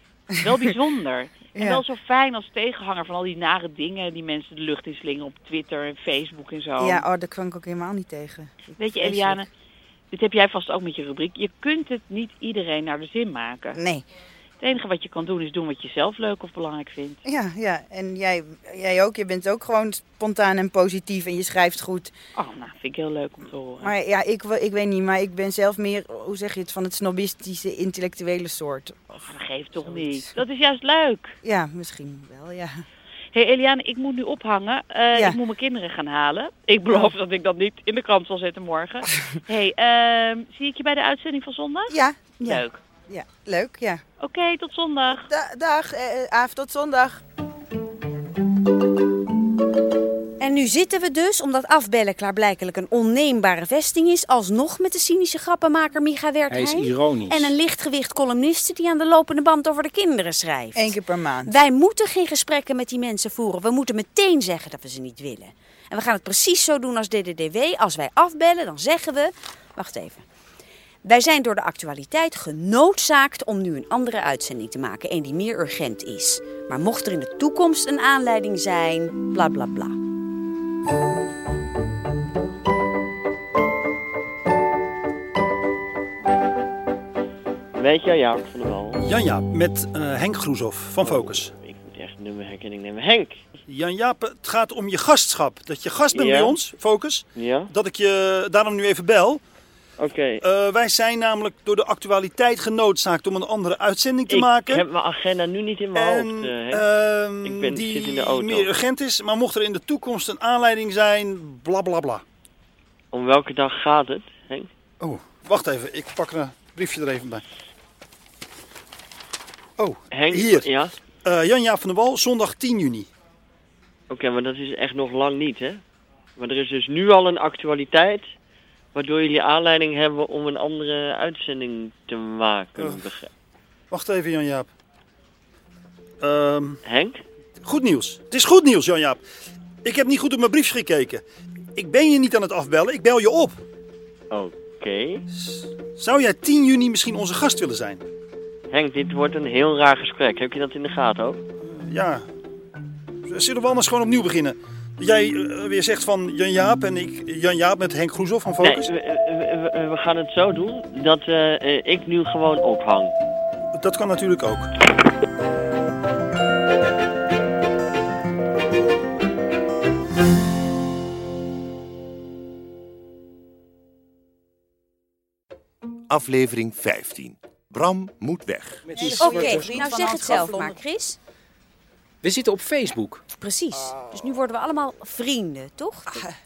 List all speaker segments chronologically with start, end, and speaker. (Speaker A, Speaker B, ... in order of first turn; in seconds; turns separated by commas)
Speaker A: 0.3-0.7, Speaker B: 0.4-7.0, Speaker A: 1.5-1.8, Speaker A: 6.8-9.4, Speaker B: 8.8-9.5, Speaker B: 10.1-13.8, Speaker A: 13.7-14.0, Speaker B: 14.6-17.2, Speaker A: 17.2-22.1, Speaker B: 22.4-23.9, Speaker A: 23.8-29.1, Speaker B: 29.1-31.4, Speaker A: 29.8-30.3, Speaker A: 31.4-32.8, Speaker B: 33.3-42.8, Speaker A: 35.1-35.4, Speaker A: 41.9-44.0, Speaker B: 44.2-45.3, Speaker A: 45.3-47.2, Speaker C: 50.4-60.9, Speaker D: 56.5-57.5, Speaker A: 60.7-61.5, Speaker C: 61.5-70.2, Speaker C: 71.0-80.0, Speaker E: 87.7-89.0, Speaker F: 89.0-91.5, Speaker E: 91.0-93.4, Speaker F: 93.7-99.4, Speaker E: 96.1-96.7, Speaker E: 97.3-97.7, Speaker E: 100.0-100.4, Speaker F: 100.4-104.8, Speaker E: 104.3-106.8, Speaker F: 105.9-112.2, Speaker E: 107.4-108.7, Speaker E: 113.1-114.7, Speaker F: 115.0-117.4, Speaker F: 119.8-120.7, Speaker E: 120.1-120.9, Speaker F: 121.2-123.1, Speaker E: 124.1-125.8, Speaker E: 126.4-128.3, Speaker E: 128.9-133.3, Speaker F: 133.9-134.7, Speaker F: 136.2-136.8, Speaker E: 136.8-137.2, Speaker F: 137.6-139.2, Speaker F: 139.8-141.2, Speaker F: 141.8-143.6, Speaker E: 144.3-145.2, Speaker F: 145.3-148.0, Speaker E: 148.7-151.4, Speaker F: 151.7-152.2, Speaker F: 153.2-158.9, Speaker E: 158.6-163.1, Speaker F: 163.7-164.7, Speaker G: 176.1-178.8, Speaker D: 178.8-179.7, Speaker A: 178.9-180.8, Speaker C: 179.2-181.2, Speaker F: 179.3-179.7, Speaker D: 182.2-183.2, Speaker C: 183.4-186.2